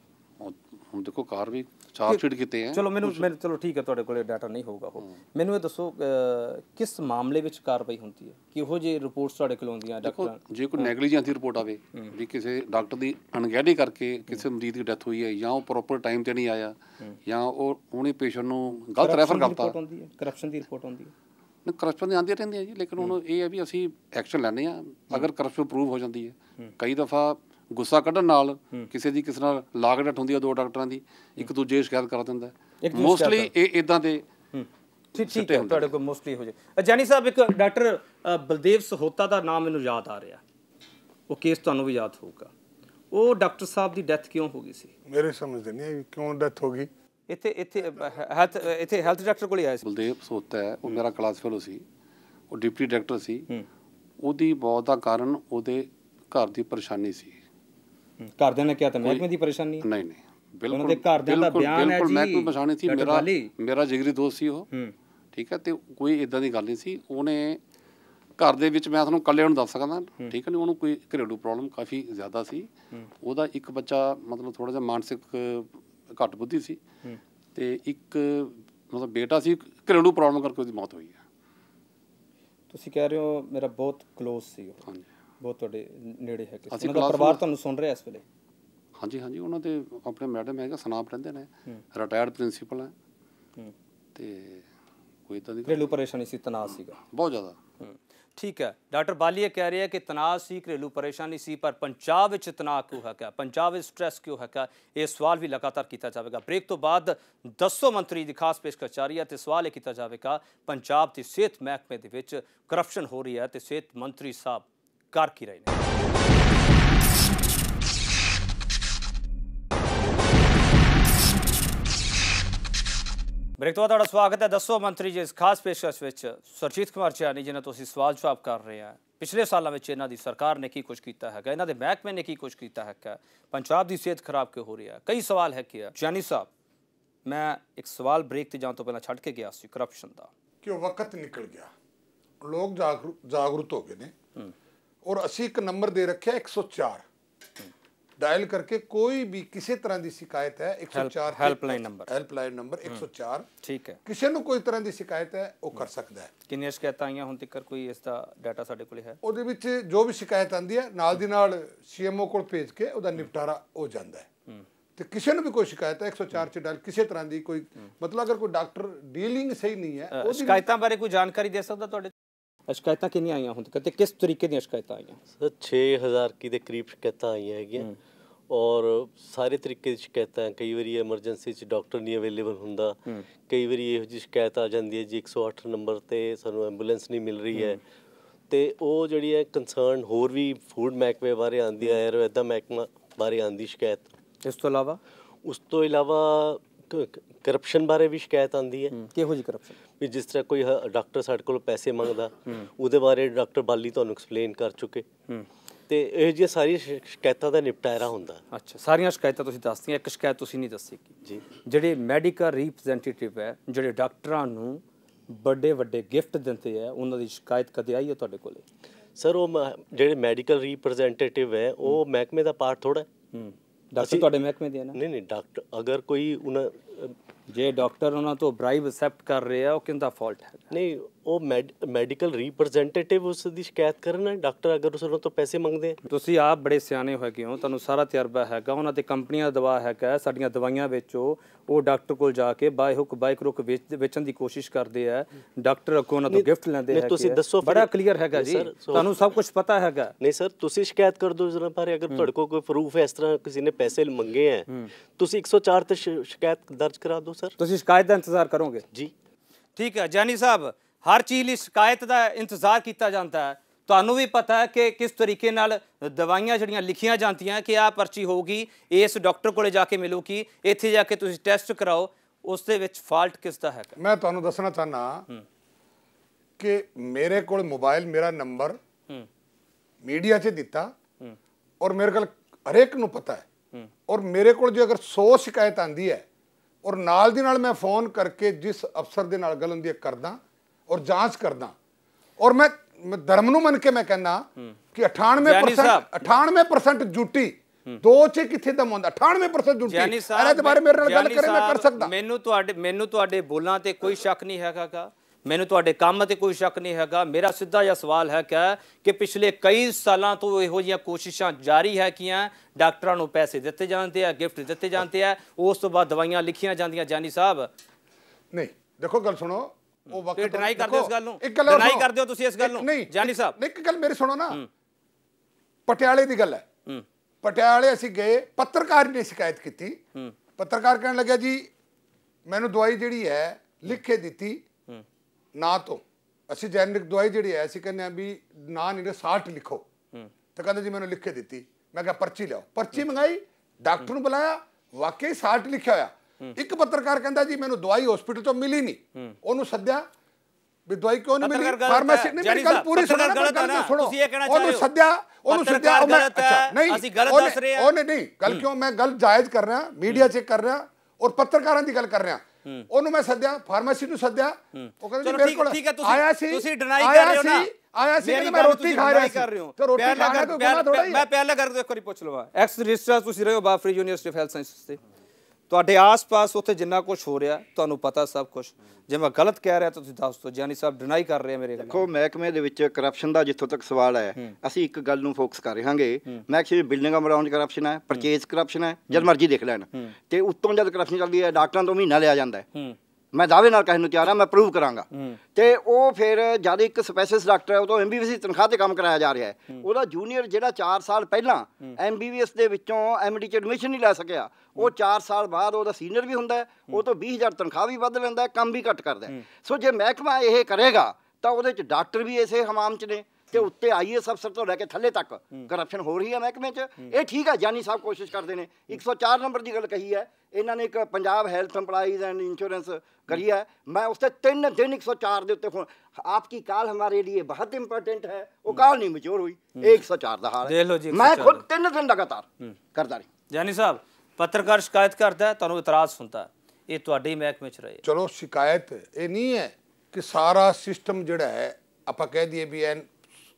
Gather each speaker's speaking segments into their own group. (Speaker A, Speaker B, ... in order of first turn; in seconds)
Speaker A: 0.4-3.3, 10.0-19.7, 21.6-34.2, 35.2-35.9, 49.8-51.8, 52.5-53.5, 54.2-57.4, 59.8-64.7, 65.3-67.6, 68.4-72.7, 73.2-76.8, 77.5-81.2, 86.7-87.4, 89.0-92.9, 94.1-94.7, 95.3-95.9, 97.0-97.6
Speaker B: 2.0-10.9, 19.0-21.1, 32.8-33.5, 34.5-40.4, 41.3-42.5, 43.1-44.9, 47.3-49.8, 58.2-59.9, 60.7-63.5, 82.7-84.8, 85.4-88.2, 95.7-97.0, 97.8-115.8, 123.6-136.5, 137.2-140.3, 150.9-152.1, 153.6-154.0, 156.5-159.2, 170.1-172.1, 172.7-175.2, 194.4-195.0, 198.9-199.8, 208.5-211.1, 211.6-218.6, 223.3-225.0, 227.5-230.7, 236.1-250.1, 257.6-258.8, 259.8-274.0, 295.4-296.3, 299.8-317.7, 320.3-323.6, 351.4-354.9, 355.5-357.9, 364.7-367.7, 368.2-375.0, 375.7-382.0, 395.1-395.4, 430.6-431.6, 433.5-438.0
Speaker C: 45.1-46.9, 140.6-141.7, 142.4-144.1, 145.0-147.0, 148.2-153.4, 154.0-156.3, 159.2-164.3, 165.0-170.6, 274.0-275.2, 276.6-278.8, 280.0-280.9, 281.8-283.4, 284.1-286.2, 286.8-291.7, 292.4-302.1, 318.5-324.6, 325.9-326.6, 327.4-330.0, 330.6-331.7, 332.5-334.6, 335.5-339.8, 340.6-350.0, 350.9-371.2, 438.0-443.3
Speaker D: 175.3-177.9, 178.5-187.8, 188.5-194.1, 195.4-199.0, 200.0-205.1, 205.9-208.4, 219.2-223.1, 224.0-224.3, 224.9-227.1, 230.7-236.0, 246.3-249.1, 250.2-257.5
Speaker E: 381.8-392.6, 393.3-433.2